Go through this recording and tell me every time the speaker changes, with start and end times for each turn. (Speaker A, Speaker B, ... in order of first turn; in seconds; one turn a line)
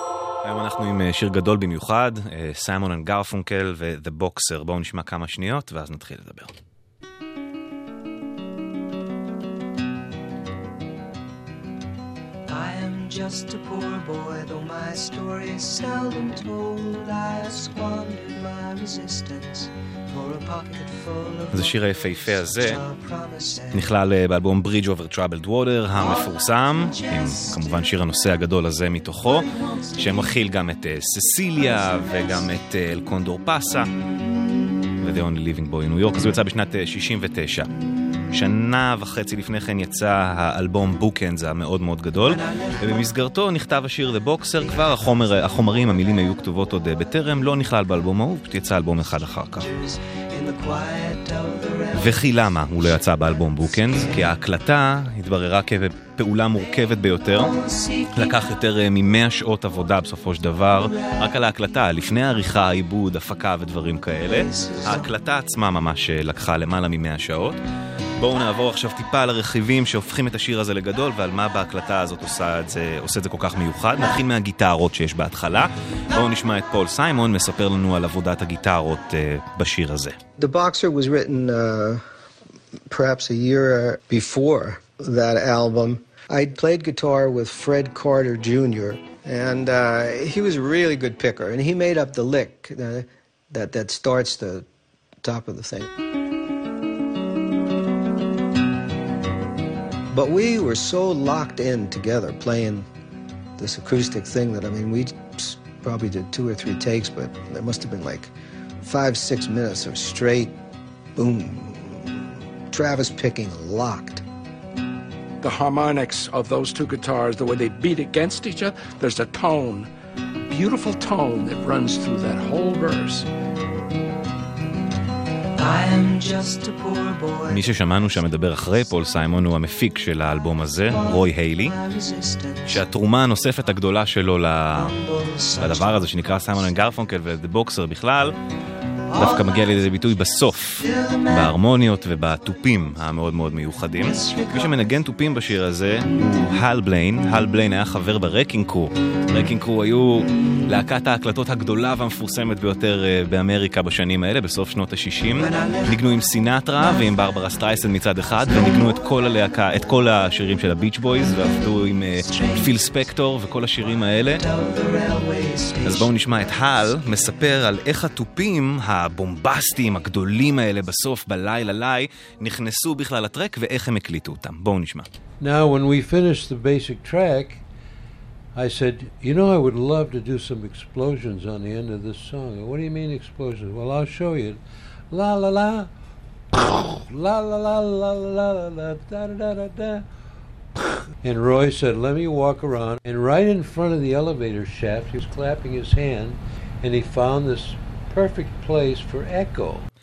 Speaker A: 0.4-6.5
Speaker B: 12.5-23.9
Speaker A: 21.5-22.8
Speaker A: 23.7-33.9
Speaker B: 25.9-27.9
Speaker B: 29.3-30.3
Speaker B: 31.6-32.5
Speaker A: 35.0-37.7
Speaker A: 38.3-49.7
Speaker B: 42.2-42.9
Speaker B: 44.7-45.7
Speaker B: 49.5-54.3
Speaker A: 51.9-57.5
Speaker B: 57.4-58.4
Speaker A: 58.1-67.6
Speaker B: 64.2-65.1
Speaker A: 68.2-80.2
Speaker C: 80.4-82.0
Speaker C: 82.9-94.7
Speaker C: 95.2-95.9
Speaker C: 100.1-102.9
Speaker C: 103.6-110.5
Speaker C: 111.2-114.2
Speaker D: 115.4-119.9
Speaker D: 120.5-123.3
Speaker B: 125.6-127.6
Speaker A: 127.5-131.7
Speaker B: 130.8-132.8
Speaker A: 132.7-134.9
Speaker B: 134.7-136.3
Speaker A: 135.6-138.3
Speaker B: 139.1-139.5
Speaker A: 139.1-164.4
Speaker B: 140.8-141.5
Speaker B: 144.0-144.8
Speaker B: 155.3-156.0
Speaker B: 162.1-162.7
Speaker B: 164.2-166.1
Speaker A: 165.8-175.1
Speaker E: 175.4-177.6
Speaker E: 178.5-185.9
Speaker E: 186.5-190.1
Speaker E: 191.2-199.9